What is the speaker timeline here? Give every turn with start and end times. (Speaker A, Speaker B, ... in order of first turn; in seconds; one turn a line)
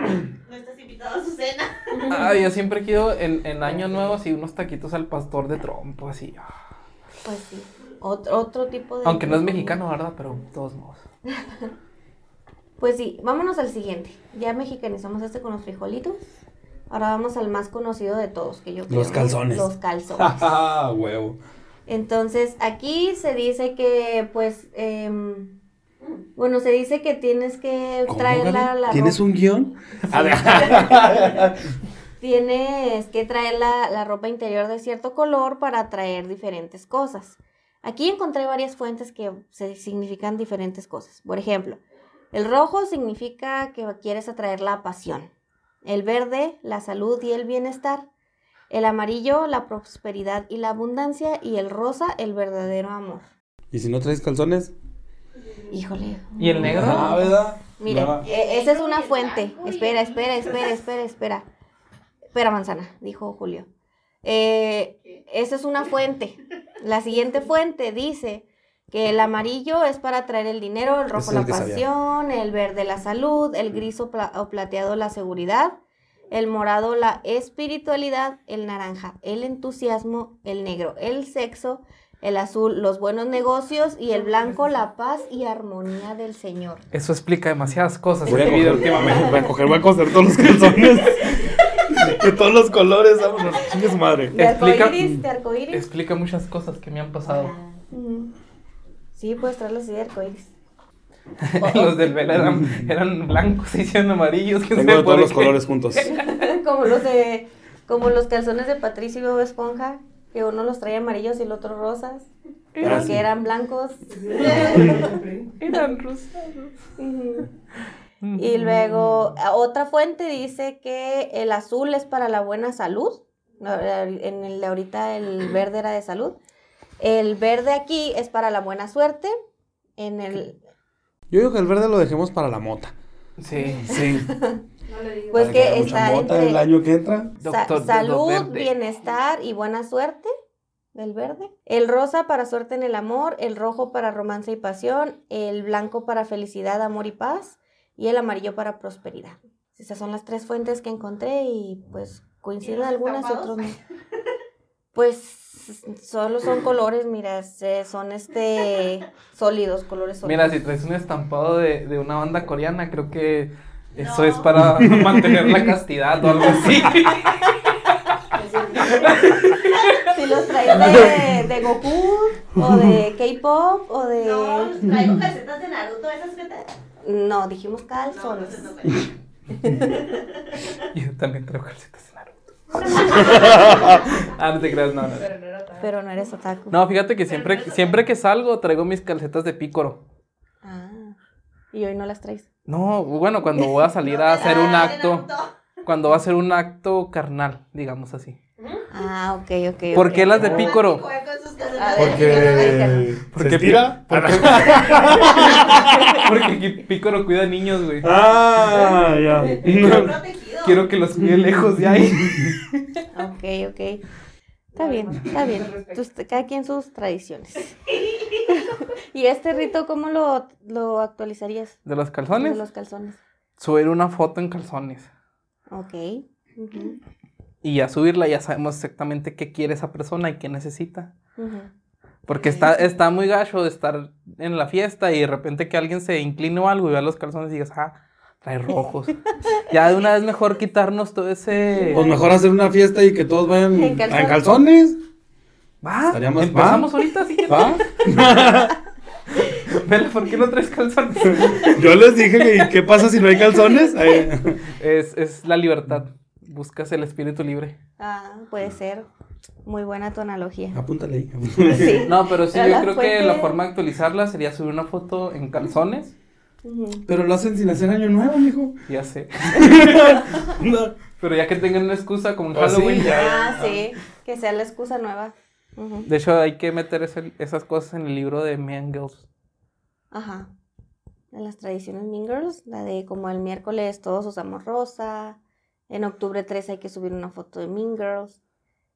Speaker A: 0.5-2.2
Speaker B: 1.9-2.3
Speaker C: 2.1-6.5
Speaker D: 7.2-9.8
Speaker C: 9.0-11.0
Speaker D: 11.4-11.7
Speaker D: 12.8-16.3
Speaker D: 16.9-20.4
Speaker E: 18.9-21.4
Speaker D: 21.9-25.6
Speaker D: 26.4-29.2
Speaker E: 28.1-31.6
Speaker D: 30.1-31.1
Speaker D: 32.2-41.8
Speaker D: 42.3-45.3
Speaker D: 45.8-48.1
Speaker D: 48.7-53.3
Speaker E: 53.7-54.7
Speaker D: 55.7-61.5
Speaker C: 56.4-57.2
Speaker E: 56.6-58.3
Speaker A: 58.2-60.7
Speaker D: 62.3-63.7
Speaker D: 64.2-75.8
Speaker E: 71.1-71.8
Speaker D: 76.3-86.8
Speaker B: 84.2-84.7
Speaker C: 86.9-89.5
Speaker E: 88.2-94.3
Speaker D: 88.9-89.5
Speaker D: 94.3-95.8
Speaker C: 94.4-95.1
Speaker C: 95.7-97.5
Speaker D: 97.9-98.3
Speaker D: 99.2-100.5
Speaker C: 101.4-106.5
Speaker D: 101.6-102.1
Speaker E: 102.3-102.9
Speaker E: 104.8-106.1
Speaker D: 106.1-115.2
Speaker C: 112.7-113.2
Speaker E: 112.8-113.2
Speaker B: 114.2-115.6
Speaker E: 114.6-115.0
Speaker C: 115.6-116.8
Speaker D: 117.0-117.5
Speaker C: 118.2-119.3
Speaker D: 118.3-126.4
Speaker D: 127.0-129.3
Speaker D: 130.0-130.6
Speaker E: 131.3-132.9
Speaker C: 133.4-133.9
Speaker E: 133.8-134.3
Speaker D: 133.9-134.6
Speaker B: 134.9-135.7
Speaker D: 135.3-136.7
Speaker E: 135.3-137.3
Speaker C: 137.4-138.7
Speaker D: 137.4-140.3
Speaker D: 140.9-153.8
Speaker A: 152.6-153.7
Speaker D: 154.9-160.6
Speaker C: 160.2-167.6
Speaker A: 164.0-164.5
Speaker E: 164.5-166.8
Speaker B: 168.3-169.4
Speaker C: 168.9-170.1
Speaker D: 170.1-174.8
Speaker E: 172.6-173.0
Speaker A: 174.2-176.7
Speaker D: 177.0-178.8
Speaker A: 178.1-179.1
Speaker D: 179.5-180.1
Speaker A: 179.7-180.8
Speaker C: 180.9-185.3
Speaker B: 183.2-183.8
Speaker E: 183.4-184.0
Speaker B: 185.1-185.9
Speaker D: 185.8-186.8
Speaker C: 186.7-190.0
Speaker A: 187.3-188.0
Speaker D: 190.6-191.2
Speaker D: 191.7-192.5
Speaker C: 192.7-195.3
Speaker A: 194.0-195.5
Speaker C: 195.8-198.4
Speaker B: 198.6-198.8
Speaker D: 198.9-200.4
Speaker C: 199.9-201.1
Speaker A: 200.3-202.9
Speaker E: 200.3-200.7
Speaker D: 201.8-203.2
Speaker E: 202.0-206.5
Speaker C: 203.3-208.1
Speaker D: 205.4-206.0
Speaker E: 208.0-210.2
Speaker A: 209.5-210.9
Speaker C: 209.8-210.1
Speaker C: 210.6-212.8
Speaker E: 211.2-211.4
Speaker E: 212.2-212.5
Speaker D: 213.1-214.0
Speaker B: 214.8-216.0
Speaker D: 214.8-217.8
Speaker A: 217.9-218.4
Speaker D: 218.5-221.8
Speaker C: 221.9-222.6
Speaker D: 222.3-223.2
Speaker C: 223.6-225.1
Speaker D: 225.7-227.0
Speaker C: 227.6-231.1
Speaker D: 231.4-231.7
Speaker C: 232.3-242.0
Speaker D: 232.3-232.8
Speaker D: 241.9-242.2
Speaker E: 241.9-245.0
Speaker D: 243.7-244.6
Speaker C: 245.8-247.8
Speaker E: 246.1-246.9
Speaker E: 247.5-248.8
Speaker C: 249.4-251.9
Speaker E: 251.3-254.7
Speaker D: 253.6-254.2
Speaker C: 254.7-257.8
Speaker D: 258.0-259.1
Speaker D: 259.6-260.8
Speaker E: 260.7-262.1
Speaker D: 261.7-263.6
Speaker C: 262.1-266.1
Speaker D: 266.6-267.0
Speaker E: 267.1-268.8
Speaker C: 268.9-270.2
Speaker E: 269.5-270.9
Speaker C: 271.2-273.2
Speaker E: 272.5-273.9
Speaker D: 273.1-276.1
Speaker C: 276.1-279.3
Speaker D: 280.1-280.5
Speaker D: 281.3-285.4
Speaker D: 285.9-288.4